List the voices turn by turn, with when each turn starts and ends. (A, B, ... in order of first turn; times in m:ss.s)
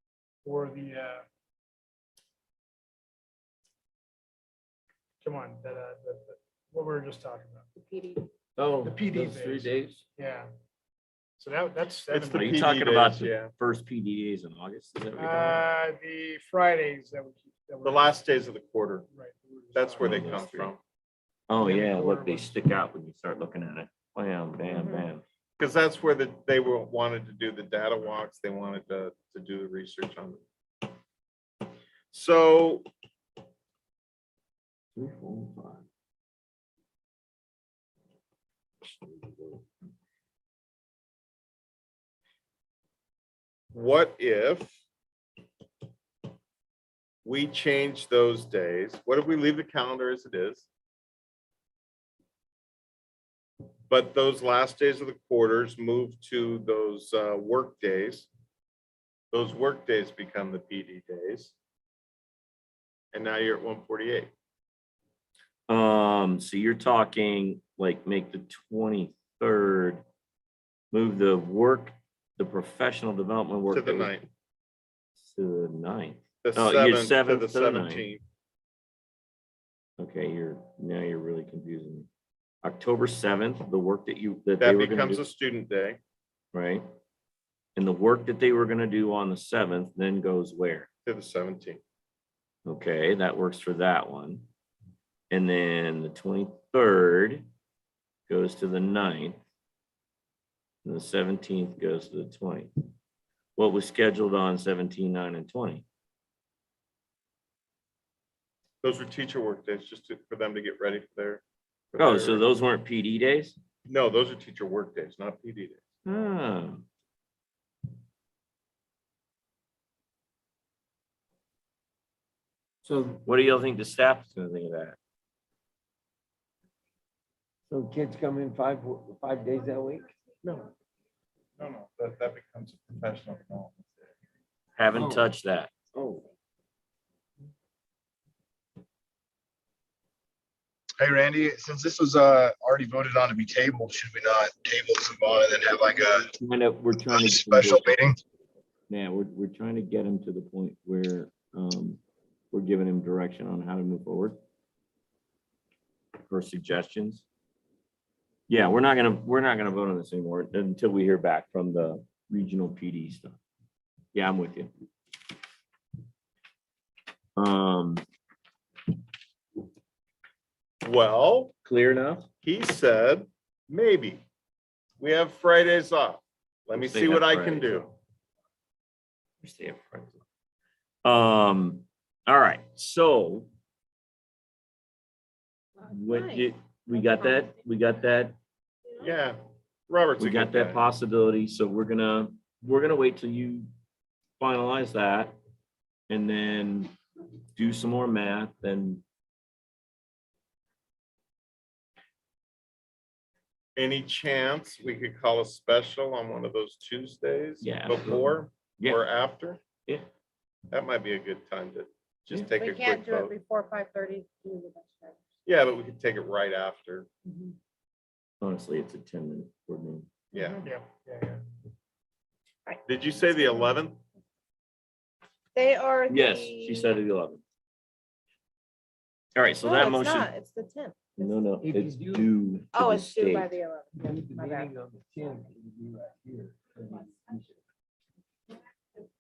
0:00.4-0:01.2 A
0:05.2-0:07.7 A
0:07.8-0:08.3 B
0:08.6-0:10.0 C
0:08.8-0:10.5 A
0:11.4-0:12.7 A
0:12.1-0:13.5 D
0:12.3-0:15.6 E
0:15.2-0:18.2 A
0:17.8-0:19.0 D
0:19.1-0:20.7 A
0:19.8-0:20.8 D
0:20.0-0:20.7 E
0:21.5-0:25.2 E
0:21.6-0:22.6 A
0:24.7-0:25.1 B
0:25.6-0:30.4 D
0:32.1-0:32.8 D
0:35.0-0:35.9 E
0:38.8-0:39.7 E
0:43.7-0:44.8 D
0:47.2-0:50.7 D
0:53.9-0:58.3 D
0:59.3-1:01.5 D
1:03.1-1:04.3 D
1:05.7-1:10.0 E
1:10.9-1:14.1 E
1:13.7-1:14.3 D
1:15.2-1:18.1 E
1:16.4-1:18.2 D
1:20.0-1:22.1 E
1:22.6-1:25.2 E
1:24.6-1:26.0 D
1:26.5-1:26.8 E
1:27.8-1:30.9 E
1:31.0-1:31.8 D
1:32.6-1:34.5 E
1:35.3-1:37.5 E
1:38.3-1:39.4 E
1:40.8-1:42.7 E
1:43.6-1:45.8 E
1:48.8-1:51.4 D
1:51.9-1:52.5 D
1:52.0-1:53.6 E
1:53.9-1:55.8 D
1:56.1-1:56.9 E
2:02.8-2:03.2 C
2:03.2-2:05.0 E
2:07.7-2:10.1 C
2:11.6-2:14.1 D
2:14.8-2:15.7 E
2:15.0-2:15.2 C
2:21.0-2:26.3 F
2:26.4-2:28.0 E
2:27.0-2:28.2 F
2:28.9-2:32.0 E
2:32.5-2:34.4 E
2:36.3-2:37.2 E
2:38.5-2:43.4 E
2:44.1-2:44.7 E
2:47.4-2:48.0 E
2:50.8-2:51.5 D
2:51.6-2:52.3 E
2:52.4-2:54.2 D
2:55.0-2:57.9 D
2:56.7-2:57.9 E
2:59.4-3:00.2 E
3:01.0-3:03.5 E
3:05.8-3:07.3 B
3:05.9-3:08.4 E
3:09.0-3:09.4 D
3:09.9-3:10.8 D
3:10.2-3:13.7 E
3:14.4-3:15.4 E
3:16.1-3:16.9 E
3:17.6-3:19.0 E
3:23.8-3:29.6 D
3:27.6-3:29.1 E
3:30.7-3:33.4 D
3:32.6-3:35.2 B
3:35.4-3:37.1 D
3:38.4-3:40.1 E
3:40.3-3:40.6 D
3:40.4-3:40.6 B
3:40.6-3:41.4 A
3:42.9-3:44.0 D
3:45.6-3:47.0 B
3:46.1-3:47.4 E
3:49.4-3:50.3 E
3:49.6-3:51.3 B
3:51.2-3:53.5 E
3:51.6-3:52.3 C
3:52.7-3:54.7 B
3:53.9-3:57.6 C